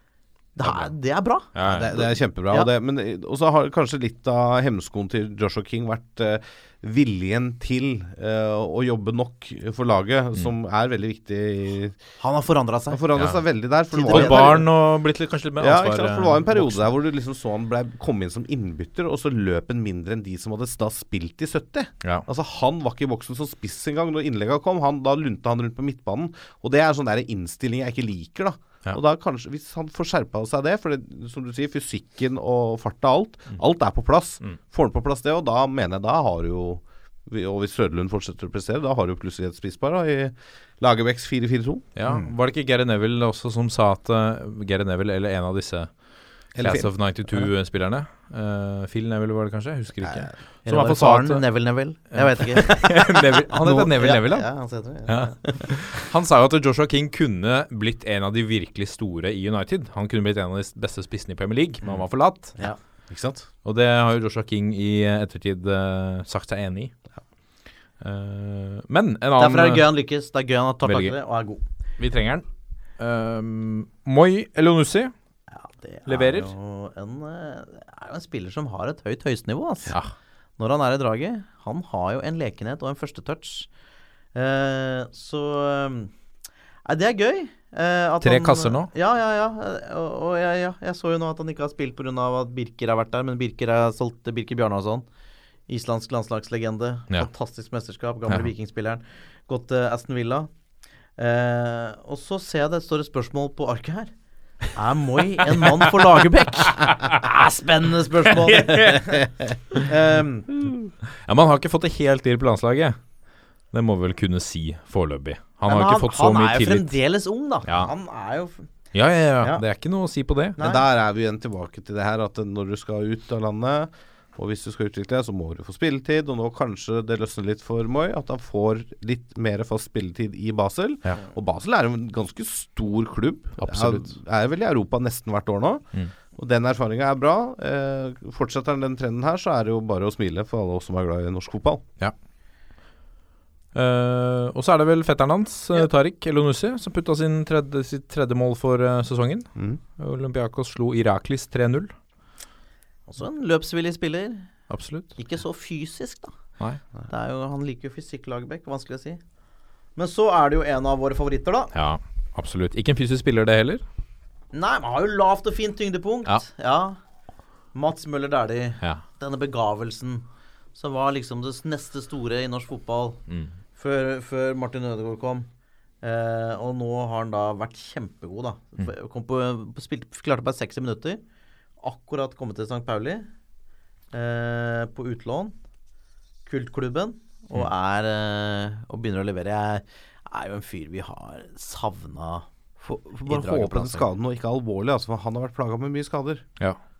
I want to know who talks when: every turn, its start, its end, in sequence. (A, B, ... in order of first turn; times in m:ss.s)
0:00.6-0:02.7 A
0:01.5-0:01.9 B
0:01.6-0:12.0 C
0:12.2-0:13.0 A
0:12.9-0:14.6 C
0:13.2-0:13.4 B
0:13.9-0:14.6 A
0:14.1-0:16.9 B
0:15.6-0:41.9 C
0:42.0-0:46.0 B
0:46.5-0:51.4 B
0:46.6-0:47.5 C
0:50.0-0:50.3 C
0:50.7-0:55.7 A
0:52.1-1:02.6 B
1:02.6-1:03.5 C
1:03.6-1:06.9 B
1:08.0-1:09.9 B
1:09.4-1:11.6 A
1:10.8-1:11.1 B
1:12.0-1:12.4 B
1:13.0-1:15.1 B
1:15.5-1:20.0 A
1:16.1-1:16.5 B
1:20.6-1:23.7 A
1:24.4-1:26.1 A
1:26.8-1:35.0 A
1:28.2-1:28.9 B
1:35.7-1:40.5 A
1:41.2-1:44.1 A
1:44.7-1:49.2 A
1:48.4-1:49.2 B
1:49.8-1:50.5 A
1:51.2-1:53.0 B
1:53.7-1:56.9 B
1:55.7-1:58.7 A
1:57.7-1:57.9 B
1:58.9-2:00.6 B
2:00.6-2:00.8 A
2:00.6-2:21.8 C
2:13.6-2:14.1 B
2:23.8-2:31.9 B
2:33.1-2:34.6 A
2:34.7-2:35.1 B
2:35.2-2:36.4 A
2:37.1-2:39.2 A
2:40.0-2:41.7 A
2:41.7-2:43.8 B
2:44.5-2:47.0 A
2:47.7-2:53.2 A
2:53.8-2:55.5 A
2:56.0-3:01.2 A
3:01.8-3:03.3 A
3:04.1-3:05.5 A
3:06.5-3:12.5 A
3:12.8-3:16.5 C
3:13.3-3:14.1 A